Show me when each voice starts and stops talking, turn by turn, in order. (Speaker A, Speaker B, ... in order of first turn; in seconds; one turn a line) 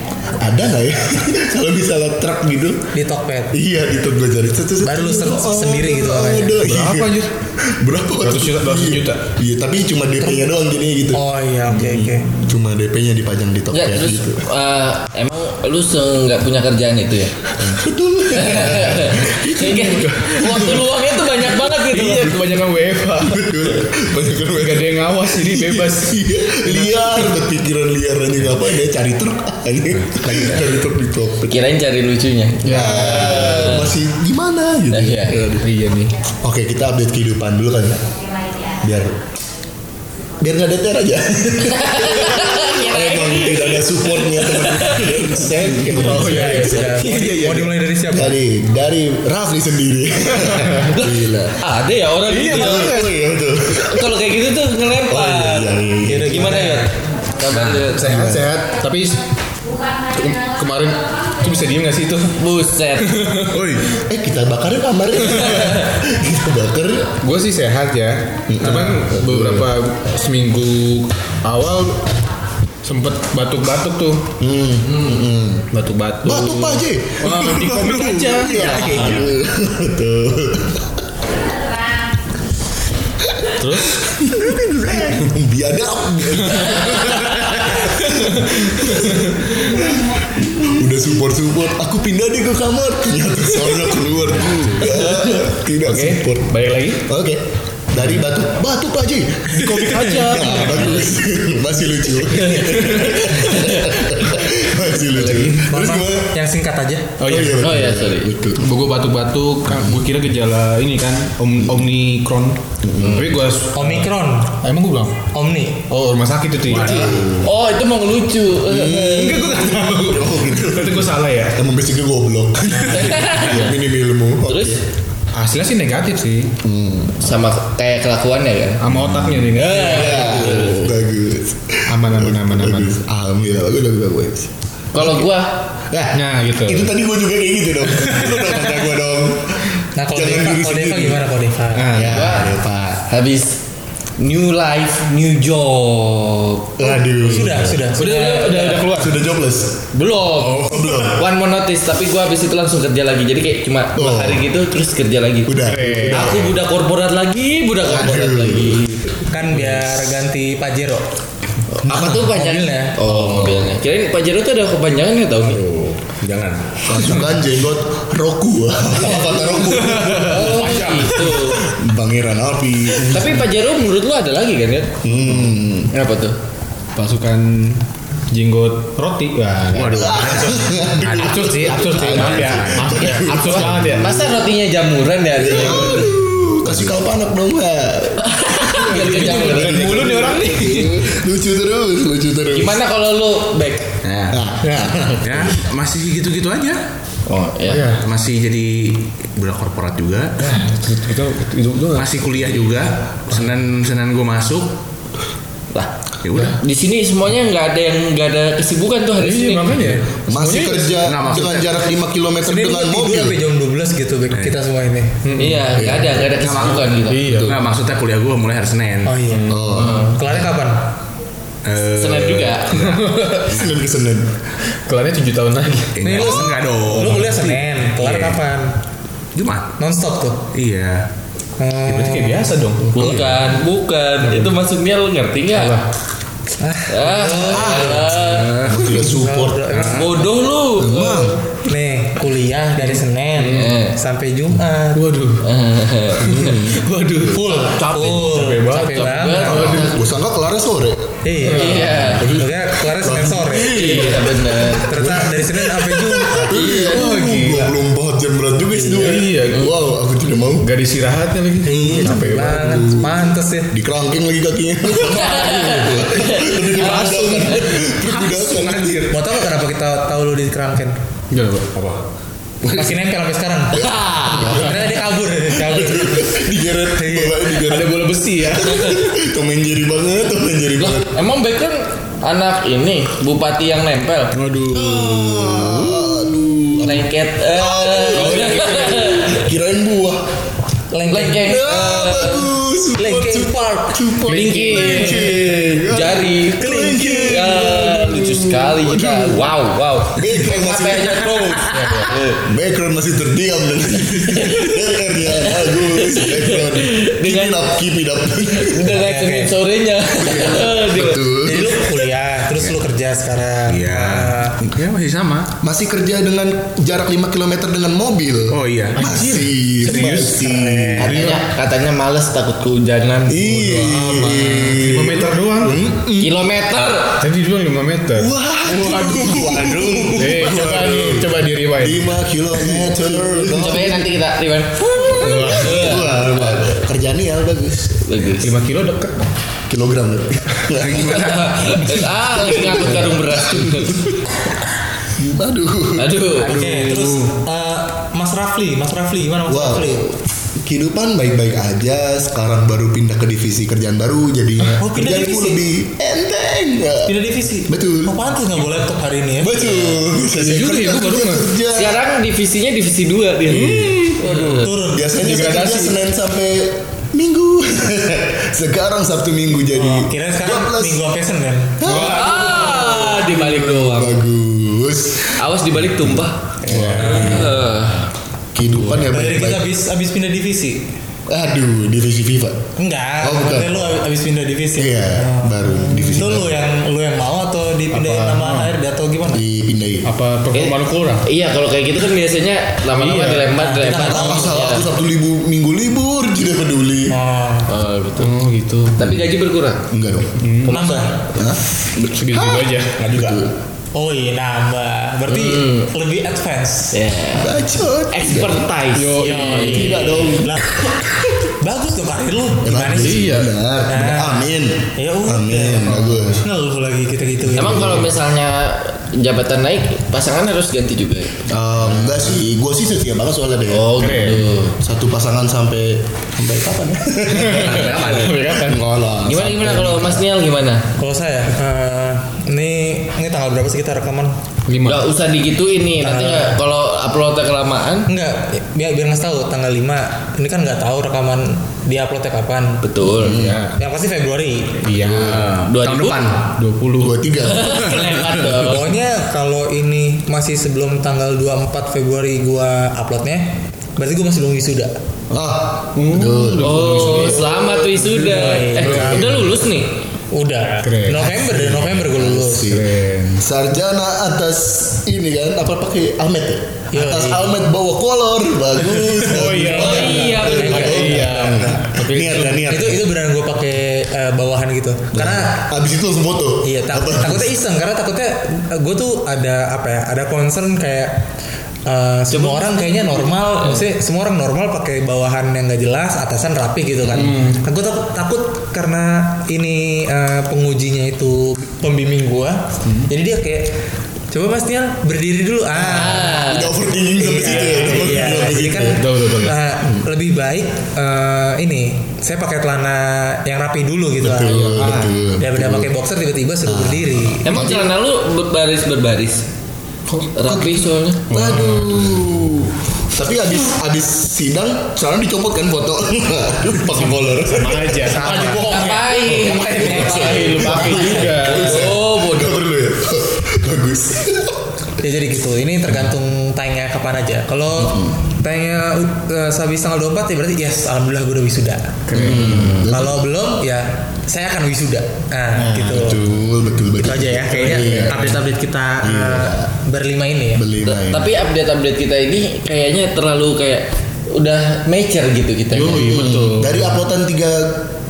Speaker A: 0.3-2.9
Speaker B: 2.9-3.5
Speaker A: 3.5-11.2
Speaker B: 4.8-6.6
Speaker C: 6.6-7.3
Speaker C: 8.2-9.2
Speaker B: 10.2-10.5
Speaker B: 11.1-12.3
Speaker A: 11.8-14.4
Speaker D: 13.7-17.5
Speaker A: 17.6-20.9
Speaker D: 18.3-22.6
Speaker C: 21.9-23.7
Speaker A: 23.2-31.5
Speaker C: 24.5-27.1
Speaker D: 31.4-34.0
Speaker C: 32.6-33.5
Speaker A: 32.7-35.7
Speaker D: 34.9-35.4
Speaker C: 35.6-36.1
Speaker A: 36.3-39.2
Speaker A: 40.4-51.6
Speaker D: 41.7-45.4
Speaker C: 45.4-47.0
Speaker B: 45.9-48.4
Speaker C: 50.5-50.8
Speaker D: 50.9-53.1
Speaker C: 52.3-53.1
Speaker A: 52.5-54.1
Speaker D: 53.6-58.2
Speaker A: 55.1-56.6
Speaker B: 56.0-56.9
Speaker E: 57.5-57.9
Speaker C: 57.9-59.2
Speaker A: 58.0-58.5
Speaker C: 59.9-62.4
Speaker D: 62.4-63.2
Speaker C: 63.0-63.8
Speaker E: 63.5-63.8
Speaker A: 63.9-67.2
Speaker C: 65.3-65.6
Speaker D: 65.5-65.9
Speaker C: 67.2-72.1
Speaker A: 68.5-69.7
Speaker C: 72.8-74.3
Speaker A: 74.4-75.7
Speaker C: 75.7-79.3
Speaker A: 76.2-81.0
Speaker B: 78.5-79.2
Speaker A: 83.2-106.3
Speaker C: 83.5-84.0
Speaker C: 87.3-89.8
Speaker D: 94.9-95.4
Speaker C: 95.8-97.0
Speaker C: 99.5-101.1
Speaker D: 102.3-104.0
Speaker C: 102.8-103.2
Speaker C: 105.1-105.7
Speaker B: 105.6-107.1
Speaker C: 107.2-107.7
Speaker A: 107.2-108.7
Speaker D: 107.6-108.3
Speaker C: 108.6-114.1
Speaker A: 109.7-110.0
Speaker A: 112.8-113.3
Speaker B: 113.7-114.6
Speaker C: 114.6-115.2
Speaker B: 115.3-115.8
Speaker C: 115.9-117.0
Speaker E: 116.7-117.5
Speaker D: 116.7-119.7
Speaker A: 116.8-117.5
Speaker A: 118.7-124.8
Speaker C: 119.0-121.6
Speaker D: 122.9-123.6
Speaker C: 122.9-123.8
Speaker D: 124.5-124.8
Speaker C: 125.3-126.5
Speaker A: 126.6-127.2
Speaker D: 127.2-128.8
Speaker C: 128.8-130.3
Speaker A: 128.9-135.3
Speaker D: 129.5-130.9
Speaker C: 131.9-132.9
Speaker D: 134.9-135.6
Speaker A: 135.9-141.2
Speaker C: 136.1-136.9
Speaker C: 138.0-138.6
Speaker B: 140.0-142.0
Speaker C: 141.7-142.4
Speaker A: 141.9-143.0
Speaker D: 142.1-143.6
Speaker D: 144.2-146.7
Speaker A: 146.8-147.9
Speaker B: 146.8-148.7
Speaker C: 147.9-149.2
Speaker D: 148.3-148.9
Speaker A: 148.9-149.8
Speaker D: 149.9-155.5
Speaker E: 150.4-150.9
Speaker A: 150.6-151.2
Speaker A: 153.9-154.4
Speaker A: 155.4-156.6
Speaker C: 155.6-156.4
Speaker D: 156.1-159.0
Speaker A: 157.8-158.9
Speaker B: 159.3-161.0
Speaker C: 159.5-160.0
Speaker D: 161.7-165.6
Speaker A: 161.9-162.2
Speaker B: 162.2-163.0
Speaker A: 163.0-163.7
Speaker E: 165.4-166.9
Speaker A: 166.8-170.8
Speaker D: 169.1-171.6
Speaker C: 169.8-171.4
Speaker A: 171.6-173.5
Speaker D: 173.0-176.3
Speaker A: 175.0-175.9
Speaker C: 176.9-184.1
Speaker E: 179.7-184.0
Speaker A: 179.9-184.3
Speaker D: 184.0-186.1
Speaker A: 185.3-192.8
Speaker C: 185.6-186.0
Speaker E: 185.9-186.9
Speaker D: 188.2-190.9
Speaker C: 188.8-191.0
Speaker D: 192.5-193.9
Speaker E: 194.0-194.4
Speaker A: 194.3-195.6
Speaker E: 195.2-196.8
Speaker D: 197.3-197.9
Speaker C: 197.6-198.0
Speaker E: 197.9-200.7
Speaker C: 200.4-202.7
Speaker E: 201.9-204.8
Speaker D: 205.7-210.0
Speaker E: 206.2-206.6
Speaker C: 209.2-211.0
Speaker A: 210.2-213.4
Speaker E: 211.0-211.8
Speaker B: 212.4-215.3
Speaker C: 215.2-215.8
Speaker D: 215.4-217.6
Speaker A: 215.8-216.8
Speaker E: 216.2-219.2
Speaker C: 217.0-217.6
Speaker B: 219.0-220.8
Speaker C: 219.3-220.0
Speaker A: 219.5-220.2
Speaker D: 219.7-220.1
Speaker E: 221.6-223.0
Speaker D: 222.0-223.0
Speaker C: 222.8-223.7
Speaker A: 223.5-224.3
Speaker C: 224.8-227.6
Speaker E: 225.9-228.3
Speaker B: 226.1-228.7
Speaker A: 226.1-226.5
Speaker E: 229.3-229.7
Speaker B: 229.8-230.5
Speaker E: 230.5-231.1
Speaker B: 231.6-232.6
Speaker C: 231.8-233.2
Speaker E: 232.9-233.4
Speaker D: 232.9-235.8
Speaker C: 234.2-234.5
Speaker C: 235.5-235.8
Speaker B: 236.6-238.1
Speaker D: 236.9-238.6
Speaker A: 237.5-239.7
Speaker E: 238.0-239.1
Speaker B: 239.1-240.2
Speaker E: 239.7-240.2
Speaker D: 239.8-241.3
Speaker A: 240.8-241.4
Speaker B: 241.6-245.0
Speaker C: 243.4-243.7
Speaker D: 243.4-243.9
Speaker C: 244.9-245.4
Speaker D: 245.4-246.7
Speaker C: 246.2-249.9
Speaker A: 246.2-246.7
Speaker B: 247.2-249.8
Speaker D: 247.6-250.2
Speaker A: 249.6-251.2
Speaker B: 251.2-254.1
Speaker C: 251.4-252.2
Speaker D: 251.4-252.3
Speaker A: 251.8-260.7
Speaker D: 253.6-254.9
Speaker B: 254.7-257.0
Speaker C: 256.7-257.7
Speaker C: 258.8-259.8
Speaker C: 260.6-262.8
Speaker A: 261.6-269.2
Speaker B: 261.7-263.7
Speaker D: 265.0-267.9
Speaker E: 267.0-269.1
Speaker B: 269.1-271.0
Speaker C: 271.3-272.0
Speaker B: 272.7-273.9
Speaker D: 273.7-274.6
Speaker A: 274.2-274.8
Speaker B: 274.4-276.3
Speaker A: 275.4-281.1
Speaker B: 276.9-277.4
Speaker C: 277.6-278.9
Speaker D: 278.6-279.0
Speaker D: 280.8-284.3
Speaker E: 284.3-286.9
Speaker A: 284.7-290.3
Speaker D: 286.8-289.5
Speaker C: 288.1-288.9
Speaker B: 290.9-291.5
Speaker D: 291.1-292.5
Speaker A: 291.3-299.5
Speaker B: 293.0-294.0
Speaker D: 294.3-302.4
Speaker C: 294.3-295.2
Speaker A: 300.1-301.6
Speaker C: 301.7-302.1
Speaker A: 302.4-309.0
Speaker D: 304.3-307.7
Speaker D: 308.5-311.3
Speaker B: 308.9-309.5
Speaker A: 310.2-311.9
Speaker B: 311.4-314.6
Speaker E: 313.7-315.5
Speaker A: 315.6-321.1
Speaker E: 318.5-319.1
Speaker C: 318.9-321.4
Speaker D: 321.0-323.4
Speaker A: 323.3-326.3
Speaker C: 323.4-325.8
Speaker D: 326.2-327.2
Speaker C: 327.2-332.1
Speaker A: 328.1-334.1
Speaker C: 332.6-332.9
Speaker D: 333.5-336.8
Speaker A: 334.9-338.0
Speaker C: 335.1-336.0
Speaker D: 338.0-338.5
Speaker C: 338.4-339.3
Speaker A: 339.7-344.2
Speaker E: 340.7-342.1
Speaker D: 341.0-344.1
Speaker A: 345.1-346.9
Speaker D: 345.9-346.7
Speaker E: 346.4-347.3
Speaker B: 346.5-350.0
Speaker A: 349.5-358.2
Speaker B: 354.8-355.6
Speaker B: 357.1-359.7
Speaker A: 359.4-362.0
Speaker C: 360.3-361.5
Speaker D: 361.7-364.7
Speaker C: 363.5-365.9
Speaker A: 363.5-364.0
Speaker B: 364.5-365.2
Speaker A: 364.8-371.0
Speaker B: 369.7-371.8
Speaker A: 371.8-375.4
Speaker D: 371.8-374.2
Speaker C: 371.9-372.4
Speaker D: 375.4-378.1
Speaker C: 376.6-377.8
Speaker A: 376.7-377.7
Speaker B: 377.0-377.4
Speaker A: 378.5-379.7
Speaker B: 378.9-380.8
Speaker A: 381.3-382.6
Speaker B: 382.8-389.4
Speaker A: 383.2-384.0
Speaker A: 384.8-386.6
Speaker C: 387.9-388.7
Speaker A: 389.3-390.1
Speaker C: 390.0-391.3
Speaker D: 390.5-394.9
Speaker C: 392.9-393.5
Speaker B: 393.5-394.4
Speaker A: 394.0-397.1
Speaker B: 397.1-397.7
Speaker D: 397.7-398.3
Speaker C: 398.2-399.2
Speaker D: 399.0-399.8
Speaker A: 399.9-400.4
Speaker C: 400.3-400.8
Speaker D: 400.7-401.4
Speaker B: 400.7-401.3
Speaker A: 401.3-401.6
Speaker C: 402.1-403.2
Speaker A: 402.3-403.5
Speaker B: 403.9-406.9
Speaker D: 405.3-405.9
Speaker D: 406.9-410.4
Speaker A: 407.3-408.7
Speaker C: 408.9-410.0
Speaker B: 409.2-410.8
Speaker A: 409.4-411.1
Speaker B: 411.6-418.1
Speaker A: 412.6-416.4
Speaker C: 413.0-413.5
Speaker C: 415.9-416.4
Speaker D: 417.5-421.4
Speaker A: 417.7-417.9
Speaker A: 421.5-428.0
Speaker D: 423.7-424.7
Speaker C: 423.9-424.4
Speaker C: 427.3-428.8
Speaker D: 427.5-428.3
Speaker E: 427.6-428.3
Speaker A: 428.6-430.2
Speaker D: 429.2-430.9
Speaker B: 431.0-434.3
Speaker C: 434.7-435.1
Speaker D: 434.8-438.1
Speaker B: 436.0-436.6
Speaker B: 438.1-442.8
Speaker D: 442.8-443.4
Speaker A: 443.2-443.6
Speaker C: 443.3-443.8
Speaker B: 443.8-444.8
Speaker C: 444.8-445.4
Speaker E: 445.0-446.5
Speaker D: 445.4-446.3
Speaker C: 446.4-447.2
Speaker A: 447.0-447.9
Speaker D: 447.4-448.9
Speaker E: 447.7-448.6
Speaker B: 448.6-454.9
Speaker A: 455.3-458.1
Speaker C: 455.9-457.5
Speaker D: 456.6-460.0
Speaker B: 457.5-459.4
Speaker A: 458.8-459.3
Speaker C: 459.0-459.4
Speaker B: 460.3-462.8
Speaker C: 460.8-461.4
Speaker A: 461.3-473.1
Speaker C: 462.7-463.4
Speaker B: 466.9-467.5
Speaker C: 469.0-472.7
Speaker D: 469.7-471.1
Speaker B: 469.7-471.8
Speaker B: 472.4-475.6
Speaker A: 475.1-477.5
Speaker B: 476.6-481.2
Speaker B: 481.9-493.7
Speaker D: 482.3-483.8
Speaker C: 487.1-487.6
Speaker B: 494.3-496.4
Speaker D: 495.8-496.8
Speaker A: 496.3-499.0
Speaker B: 497.1-504.8
Speaker C: 497.6-498.4
Speaker C: 499.0-499.6
Speaker A: 504.2-505.9
Speaker C: 504.5-505.2
Speaker B: 505.4-507.7
Speaker A: 506.6-507.9
Speaker D: 507.4-509.4
Speaker D: 510.3-511.3
Speaker A: 510.4-518.2
Speaker C: 511.3-512.2
Speaker C: 516.9-521.9
Speaker B: 518.0-521.4
Speaker D: 518.4-522.6
Speaker A: 519.7-524.6
Speaker B: 525.0-531.9
Speaker A: 527.8-528.2
Speaker C: 532.0-532.9
Speaker A: 532.1-533.2
Speaker B: 532.9-536.2
Speaker C: 535.5-536.4
Speaker A: 535.9-538.4
Speaker B: 537.0-540.6
Speaker C: 537.5-538.4
Speaker A: 539.0-539.7
Speaker A: 540.5-541.3
Speaker D: 540.8-546.2
Speaker C: 545.7-547.0
Speaker A: 545.9-547.9